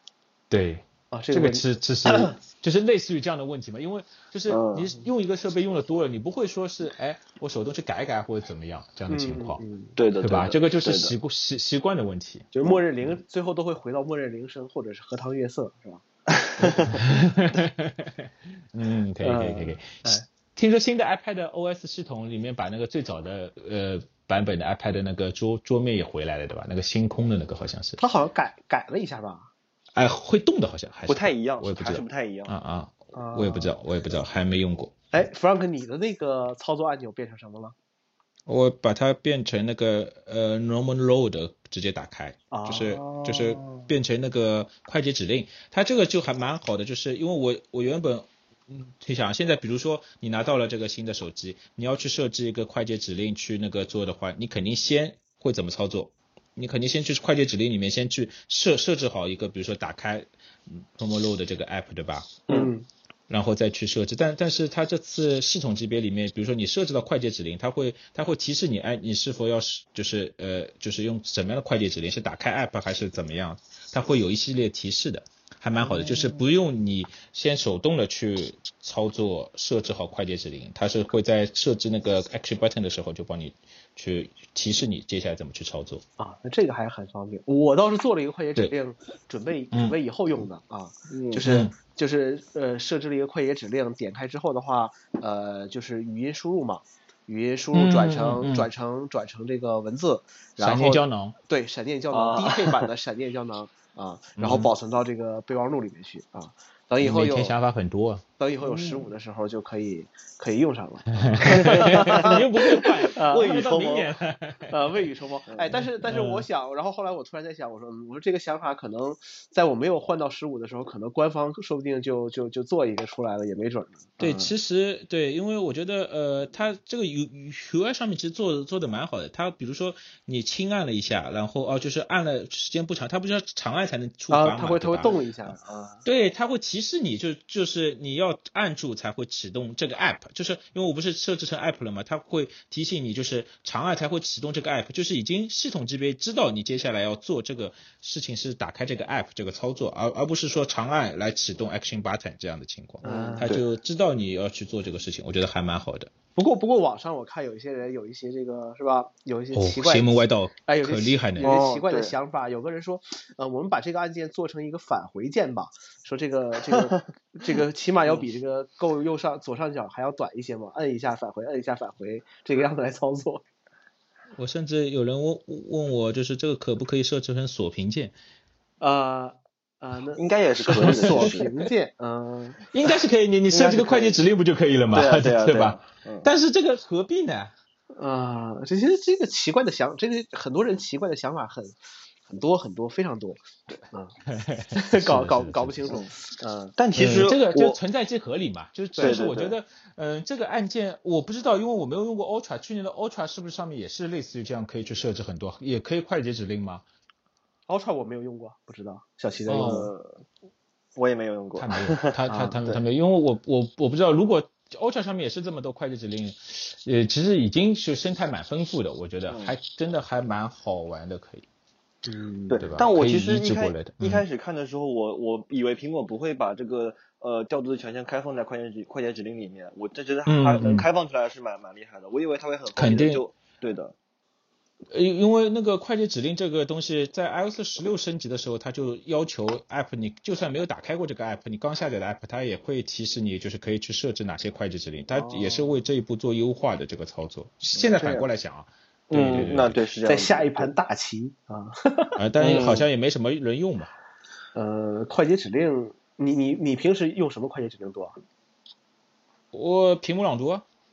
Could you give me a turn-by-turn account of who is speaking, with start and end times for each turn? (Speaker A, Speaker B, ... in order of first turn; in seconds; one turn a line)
Speaker A: 0.5-9.6
Speaker B: 1.1-2.3
Speaker C: 4.5-4.9
Speaker B: 9.1-10.0
Speaker C: 10.0-11.1
Speaker A: 10.2-12.5
Speaker B: 12.5-16.0
Speaker C: 16.4-16.9
Speaker B: 16.6-16.9
Speaker A: 16.9-28.0
Speaker B: 19.2-20.3
Speaker B: 28.0-29.5
Speaker A: 29.9-35.1
Speaker C: 31.1-32.5
Speaker B: 33.1-33.7
Speaker B: 35.1-37.7
Speaker A: 38.5-62.5
Speaker B: 42.5-43.2
Speaker B: 62.5-62.9
Speaker A: 63.3-86.0
Speaker B: 75.8-76.4
Speaker B: 86.2-107.5
Speaker C: 91.1-91.4
Speaker A: 91.4-91.7
Speaker A: 97.7-98.7
Speaker A: 100.6-101.4
Speaker C: 102.1-102.9
Speaker A: 104.4-104.7
Speaker A: 107.0-108.2
Speaker B: 108.4-113.6
Speaker C: 108.6-109.1
Speaker A: 111.2-115.0
Speaker C: 111.5-114.1
Speaker B: 114.7-124.5
Speaker A: 115.7-116.5
Speaker A: 124.2-135.2
Speaker B: 134.3-136.0
Speaker A: 136.0-156.1
Speaker B: 153.0-153.6
Speaker C: 153.0-153.6
Speaker B: 156.3-173.4
Speaker A: 159.5-161.5
Speaker C: 161.4-162.1
Speaker A: 174.3-178.1
Speaker B: 178.8-182.7
Speaker C: 180.2-181.5
Speaker A: 180.7-181.5
Speaker A: 182.7-187.5
Speaker C: 183.5-184.1
Speaker B: 183.5-183.9
Speaker C: 184.9-186.3
Speaker B: 187.9-194.2
Speaker A: 194.3-196.0
Speaker B: 194.7-196.7
Speaker C: 196.8-197.8
Speaker A: 196.9-206.8
Speaker B: 199.0-199.3
Speaker C: 199.0-199.6
Speaker B: 207.7-209.9
Speaker A: 209.5-209.9
Speaker C: 209.5-210.2
Speaker C: 210.9-212.8
Speaker A: 211.6-221.4
Speaker B: 212.3-212.6
Speaker C: 219.3-219.5
Speaker B: 222.0-222.8
Speaker C: 222.5-233.9
Speaker A: 222.6-224.2
Speaker A: 230.2-230.9
Speaker A: 232.7-233.2
Speaker A: 234.9-249.8
Speaker B: 245.1-245.8
Speaker B: 247.9-248.3
Speaker C: 249.1-250.7
Speaker B: 250.1-252.2
Speaker A: 252.2-253.9
Speaker C: 252.4-252.8
Speaker B: 254.5-258.2
Speaker A: 259.5-260.6